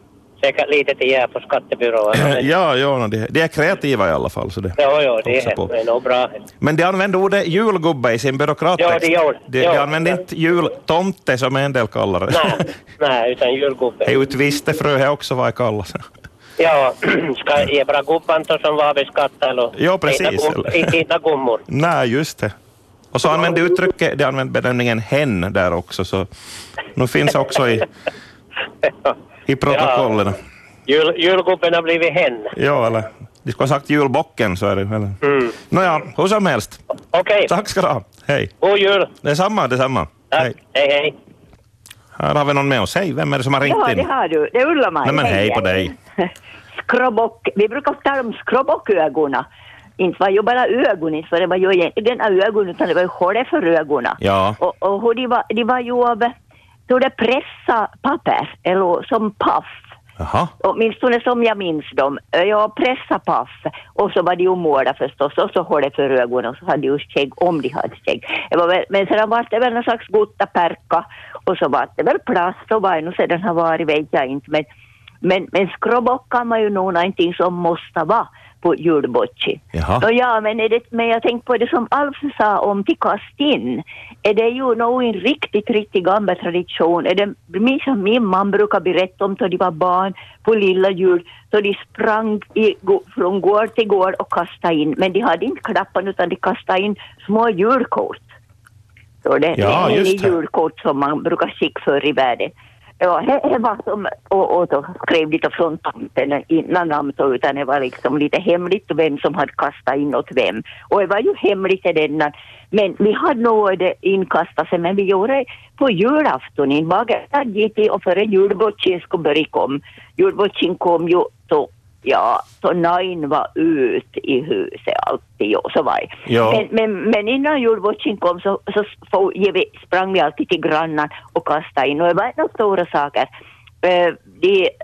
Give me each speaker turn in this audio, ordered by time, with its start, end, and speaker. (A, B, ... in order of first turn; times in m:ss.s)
0:00.4-0:02.5 A
0:02.1-0:05.7 B
0:04.8-0:06.3 A
0:06.6-0:12.6 B
0:08.8-0:10.2 A
0:12.3-0:14.1 A
0:14.0-0:16.0 B
0:16.6-0:21.6 A
0:19.8-0:20.9 B
0:21.7-0:22.5 B
0:23.1-0:26.3 B
0:27.0-0:27.9 B
0:28.8-0:29.2 A
0:29.5-0:30.4 B
0:29.7-0:30.1 A
0:30.9-0:32.5 A
0:32.6-0:35.2 B
0:35.2-0:35.5 A
0:35.7-0:36.8 B
0:37.1-0:37.5 A
0:37.5-0:38.5 B
0:38.6-0:39.1 A
0:39.2-0:40.5 B
0:40.3-0:41.1 A
0:42.2-0:44.1 B
0:43.6-0:45.9 C
0:45.0-0:45.9 B
0:46.7-0:49.4 C
0:50.0-0:56.3 C
0:54.2-0:54.6 B
0:56.9-0:59.9 C
1:00.2-1:00.5 B
1:00.6-1:14.7 C
1:15.2-1:38.3 C
1:19.7-1:20.1 B
1:39.2-2:13.3 C
1:39.6-1:40.4 B
2:06.3-2:06.6 B
2:13.8-2:14.7 C